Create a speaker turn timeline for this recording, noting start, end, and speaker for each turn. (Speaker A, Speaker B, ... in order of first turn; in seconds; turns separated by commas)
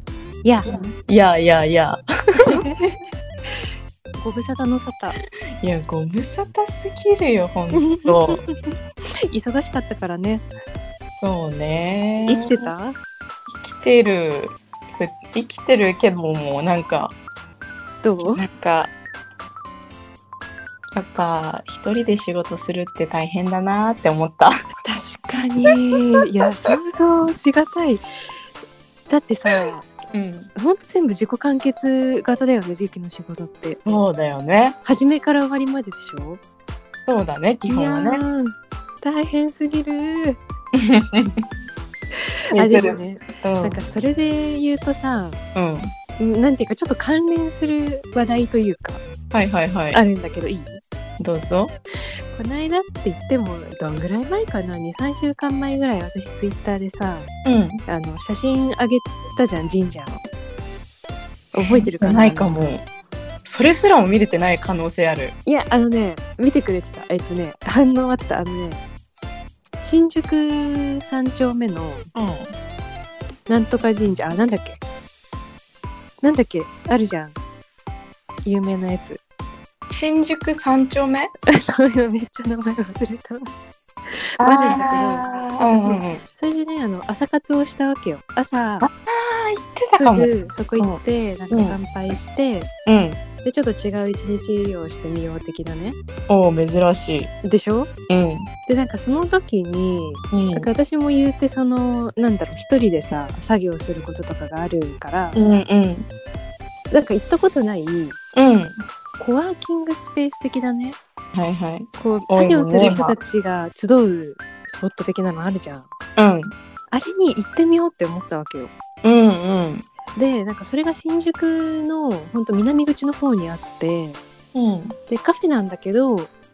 Speaker A: 0.4-0.7, Speaker B: 0.7-2.6, Speaker A: 2.4-3.6, Speaker A: 4.2-5.2, Speaker B: 5.6-8.4, Speaker A: 7.7-8.5, Speaker A: 9.3-10.4, Speaker B: 11.2-12.7, Speaker A: 12.2-12.9, Speaker B: 13.6-17.1, Speaker A: 18.0-18.4, Speaker B: 18.3-18.9, Speaker B: 20.9-24.5, Speaker A: 24.8-28.0, Speaker A: 29.1-29.9, Speaker B: 30.1-30.5, Speaker A: 30.6-33.8, Speaker B: 33.8-34.8, Speaker A: 34.8-36.4, Speaker B: 37.1-38.2, Speaker A: 37.7-40.4, Speaker B: 40.7-41.4, Speaker A: 42.1-45.4, Speaker B: 42.5-43.8, Speaker B: 45.5-45.9, Speaker A: 46.2-49.0, Speaker B: 49.3-50.0, Speaker A: 49.9-50.8, Speaker B: 51.2-51.7, Speaker A: 52.3-57.3, Speaker B: 57.4-57.8, Speaker A: 57.9-60.2, Speaker B: 61.5-62.8, Speaker A: 61.5-62.6, Speaker B: 63.4-65.3, Speaker A: 65.5-68.8, Speaker A: 69.8-72.1, Speaker B: 72.1-72.5, Speaker A: 73.5-74.8, Speaker A: 76.2-77.3, Speaker A: 78.5-79.2, Speaker B: 79.9-81.3, Speaker A: 81.5-83.5, Speaker A: 84.1-88.9, Speaker B: 84.4-86.2, Speaker B: 88.8-92.2, Speaker A: 90.0-92.7, Speaker B: 92.8-93.2, Speaker A: 93.4-96.0, Speaker B: 96.3-97.3, Speaker A: 97.4-97.9, Speaker B: 98.1-98.5, Speaker A: 98.7-105.4, Speaker B: 100.3-100.7, Speaker B: 105.3-106.1, Speaker A: 106.9-108.2, Speaker B: 108.3-108.8, Speaker A: 109.2-111.0, Speaker B: 111.3-113.2, Speaker A: 112.0-115.9, Speaker B: 116.2-116.5, Speaker A: 116.9-118.7, Speaker B: 119.0-119.8, Speaker A: 120.2-124.2, Speaker B: 124.5-124.9, Speaker A: 125.1-126.3